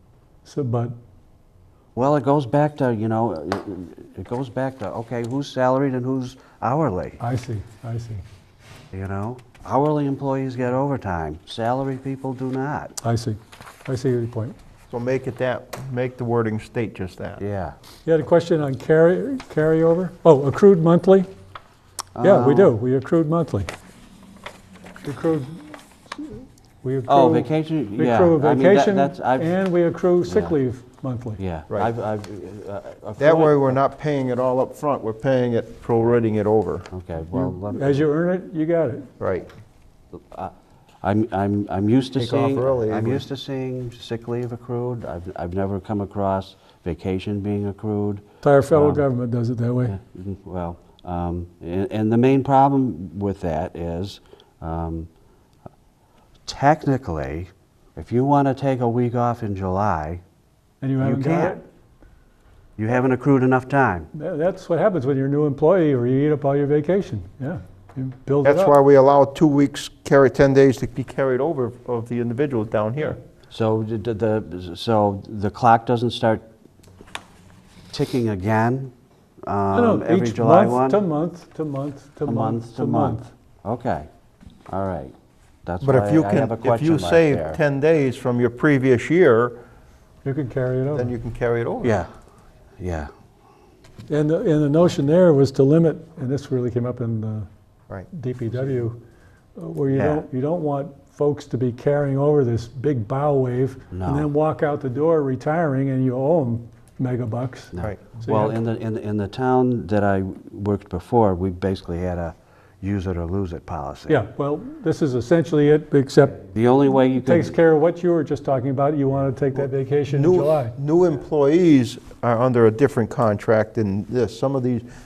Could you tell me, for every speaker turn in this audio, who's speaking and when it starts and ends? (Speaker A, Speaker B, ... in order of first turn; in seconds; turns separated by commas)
Speaker A: 0.4-0.9, Speaker B: 1.9-7.2, Speaker A: 7.2-8.2, Speaker B: 8.9-13.0, Speaker A: 13.0-14.6, Speaker C: 14.9-17.4, Speaker B: 17.4-17.8, Speaker A: 18.1-21.3, Speaker B: 22.1-22.7, Speaker A: 22.2-23.7, Speaker A: 25.0-25.7, Speaker A: 26.2-31.4, Speaker B: 27.1-29.6, Speaker B: 30.2-30.5, Speaker B: 31.4-33.8, Speaker C: 33.2-36.9, Speaker B: 36.9-38.1, Speaker A: 37.3-39.1, Speaker C: 39.2-39.5, Speaker B: 40.1-49.0, Speaker C: 42.2-43.2, Speaker A: 48.4-50.0, Speaker B: 49.9-55.1, Speaker B: 56.5-60.2, Speaker A: 60.8-61.6, Speaker B: 61.0-61.6, Speaker B: 62.8-64.1, Speaker A: 64.1-68.7, Speaker C: 68.4-73.2, Speaker B: 73.5-76.5, Speaker B: 77.9-78.9, Speaker B: 79.4-81.0, Speaker A: 79.7-83.3, Speaker B: 82.2-84.1, Speaker B: 84.7-85.1, Speaker B: 85.6-87.6, Speaker C: 85.8-89.6, Speaker A: 90.2-91.1, Speaker C: 90.9-92.0, Speaker B: 91.8-92.1, Speaker B: 92.8-93.1, Speaker A: 94.1-97.5, Speaker A: 98.1-99.0, Speaker A: 99.5-108.6, Speaker B: 99.9-100.2, Speaker B: 103.9-104.3, Speaker B: 107.7-114.2, Speaker C: 107.8-108.1, Speaker A: 114.1-116.5, Speaker B: 116.5-117.5, Speaker A: 117.0-120.7, Speaker C: 120.1-124.8